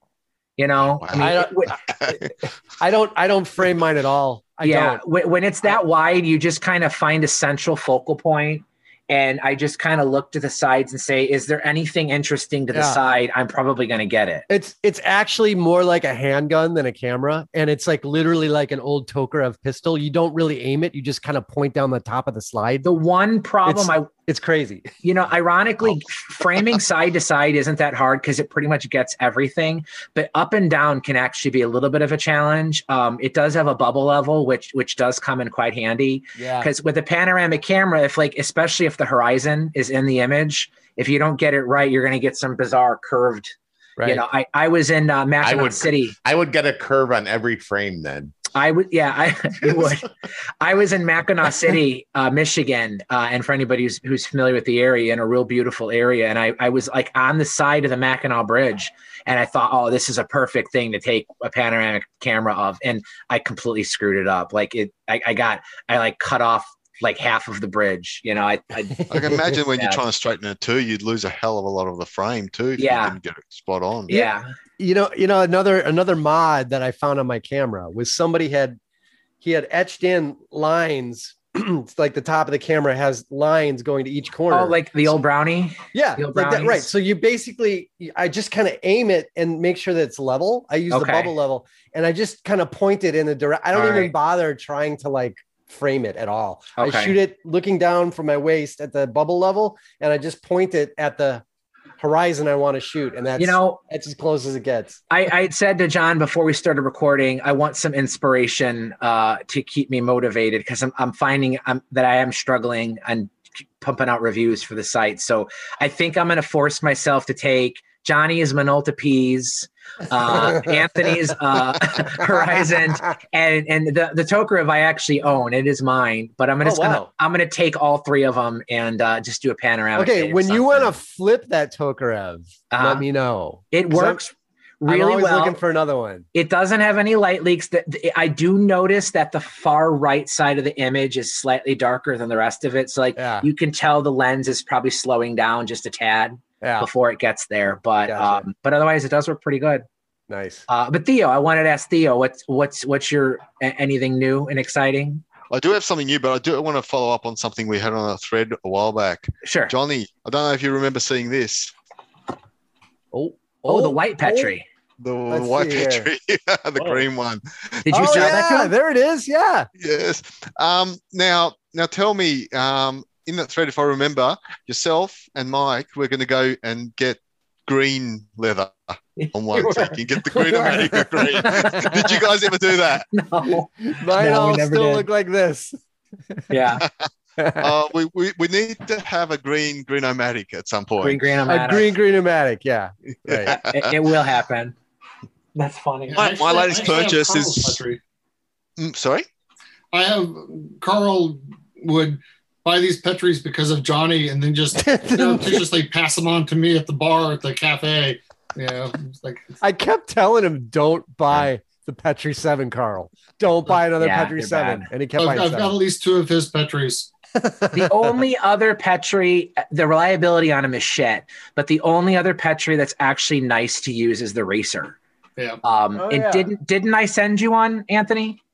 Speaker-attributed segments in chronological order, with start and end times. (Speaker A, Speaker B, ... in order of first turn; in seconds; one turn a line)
Speaker A: 0.6-1.8
Speaker B: 1.0-1.4
Speaker C: 1.1-5.0
Speaker B: 1.9-2.2
Speaker A: 4.6-14.4
Speaker C: 12.7-13.0
Speaker C: 14.5-22.9
Speaker A: 22.8-24.1
Speaker C: 23.6-24.9
Speaker A: 25.0-46.1
Speaker C: 36.4-36.7
Speaker C: 44.0-44.3
Speaker D: 45.4-48.3
Speaker A: 48.5-50.1
Speaker A: 50.6-70.0
Speaker C: 68.9-69.4
Speaker B: 69.1-74.2
Speaker A: 72.8-73.2
Speaker A: 74.1-74.5
Speaker C: 74.1-78.8
Speaker C: 79.4-84.8
Speaker A: 84.5-86.9
Speaker C: 85.9-101.4
Speaker A: 90.9-91.3
Speaker A: 93.7-94.1
Speaker A: 96.8-97.2
Speaker C: 102.0-105.0
Speaker A: 103.4-103.8
Speaker A: 105.1-130.9
Speaker C: 120.2-121.0
Speaker C: 122.0-122.8
Speaker C: 126.6-127.1
Speaker C: 129.9-134.3
Speaker A: 132.7-133.0
Speaker A: 133.7-135.6
Speaker C: 134.8-136.2
Speaker A: 136.3-149.8
Speaker C: 143.2-143.5
Speaker C: 146.6-146.9
Speaker C: 148.1-148.4
Speaker C: 150.3-150.6
Speaker A: 150.7-155.2
Speaker B: 155.5-161.7
Speaker A: 159.4-159.7
Speaker C: 163.1-164.5
Speaker A: 163.6-164.6
Speaker B: 165.0-168.4
Speaker C: 165.3-166.1
Speaker C: 166.8-167.0
Speaker A: 167.8-168.7
Speaker C: 167.9-169.7
Speaker B: 169.8-183.1
Speaker A: 179.2-182.2
Speaker C: 180.6-181.8
Speaker A: 183.1-185.1
Speaker C: 183.8-185.8
Speaker A: 186.5-186.8
Speaker C: 187.4-187.7
Speaker B: 187.6-191.4
Speaker A: 191.0-191.9
Speaker C: 191.5-193.5
Speaker B: 193.3-194.0
Speaker A: 193.4-194.7
Speaker A: 195.5-196.9
Speaker E: 196.1-198.0
Speaker B: 196.1-197.8
Speaker B: 198.8-199.2
Speaker E: 199.9-209.5
Speaker C: 204.8-205.7
Speaker C: 209.6-215.7
Speaker A: 214.0-214.9
Speaker E: 215.2-217.1
Speaker C: 217.4-218.2
Speaker A: 217.7-225.0
Speaker A: 225.6-228.4
Speaker C: 225.9-226.5